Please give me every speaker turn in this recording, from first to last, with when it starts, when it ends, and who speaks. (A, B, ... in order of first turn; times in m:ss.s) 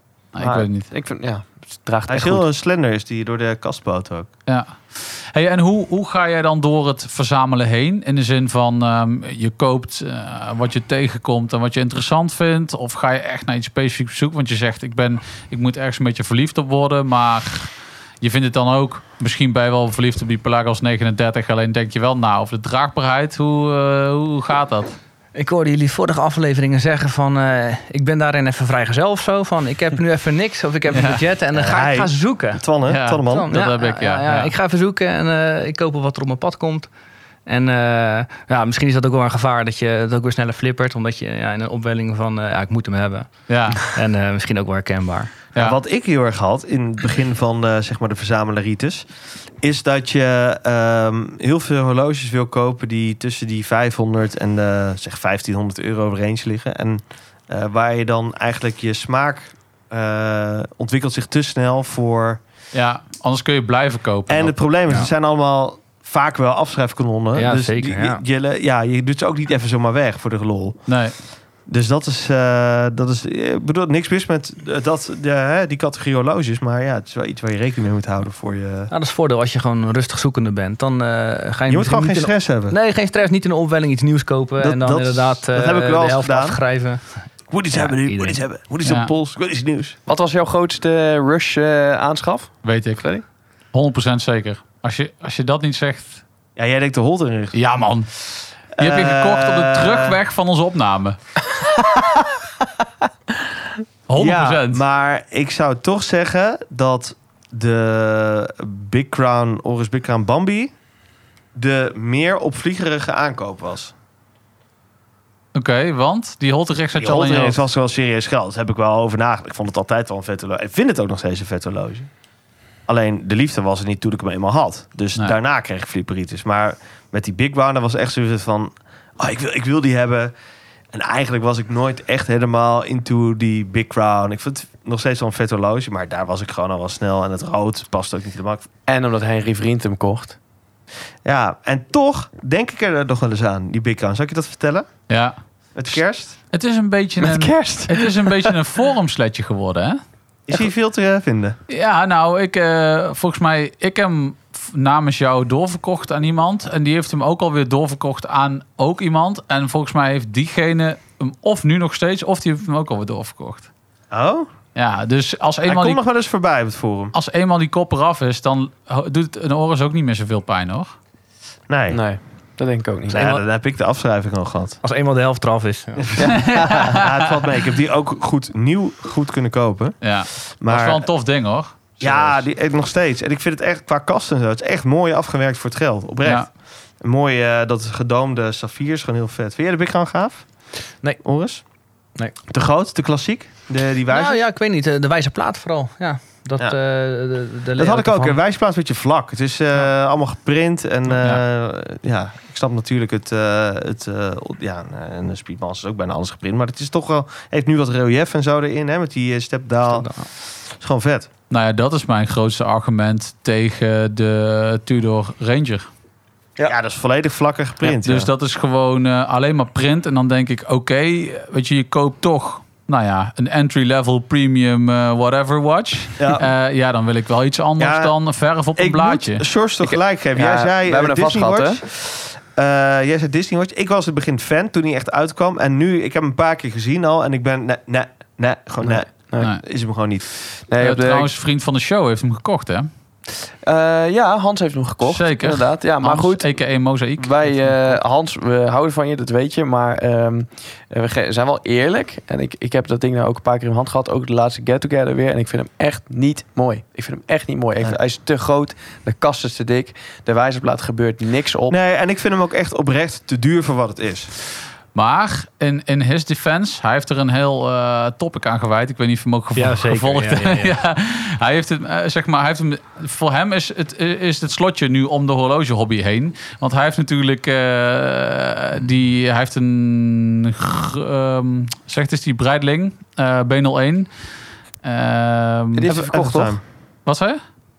0:00.3-0:00.9 A
0:00.4-0:02.5 B
0:02.1-0:04.3 C
0:04.5-0:25.0 A
0:25.3-0:32.6 D
0:30.9-0:31.2 A
0:31.5-0:33.5 C
0:32.9-0:34.5 A
0:33.3-0:36.9 D
0:37.5-0:45.3 D
0:43.5-0:43.9 A
0:45.6-1:02.4 C
1:02.7-1:04.6 A
1:04.3-1:11.0 C
1:07.4-1:08.2 D
1:10.9-1:11.2 A
1:11.6-1:18.9 C
1:18.9-1:28.4 D
1:21.7-1:22.8 C
1:24.6-1:26.6 C
1:27.5-1:30.0 C
1:28.8-1:29.1 A
1:30.1-1:33.2 B
1:32.6-1:33.1 A
1:33.7-1:36.2 A
1:36.6-1:37.6 C
1:37.5-1:38.3 A
1:38.8-1:40.2 C
1:38.8-1:41.2 A
1:41.6-1:42.3 B
1:44.1-1:44.8 A
1:44.1-1:50.8 C
1:51.6-1:53.9 C
1:55.5-1:57.6 A
1:57.0-2:02.1 C
2:02.9-2:10.4 C
2:10.9-2:18.7 C
2:18.9-2:20.4 B
2:21.2-2:24.9 C
2:25.1-2:25.4 A
2:25.8-2:26.4 C
2:25.9-2:30.0 A
2:27.2-2:28.5 B
2:30.5-2:31.6 C
2:31.7-2:43.7 A
2:44.1-2:44.5 C
2:44.8-2:46.0 A
2:45.7-2:47.1 C
2:47.1-2:51.0 A
2:51.7-2:52.0 C
2:51.9-2:53.3 B
2:53.1-2:54.8 C
2:53.1-2:53.4 D
2:54.8-2:56.1 D
2:56.0-3:01.1 C
2:56.2-2:57.0 B
2:56.3-2:57.4 A
3:00.0-3:02.2 A
3:02.0-3:11.6 C
3:12.5-3:14.4 C
3:14.1-3:18.4 D
3:17.8-3:31.3 C
3:21.1-3:21.4 A
3:29.9-3:30.3 D
3:31.5-3:35.9 A
3:36.6-3:38.3 C
3:37.9-3:49.5 A
3:46.2-3:46.4 C
3:47.8-3:48.1 C
3:48.8-4:00.2 C
3:49.8-3:51.8 B
3:58.8-3:59.5 B
4:00.6-4:02.9 A
4:00.7-4:01.3 B
4:03.6-4:21.8 B
4:05.0-4:08.0 A
4:21.7-4:24.3 C
4:24.9-4:44.1 A
4:29.6-4:30.8 D
4:44.8-4:45.9 A
4:45.7-4:46.6 B
4:45.9-4:46.6 C
4:47.1-4:47.4 A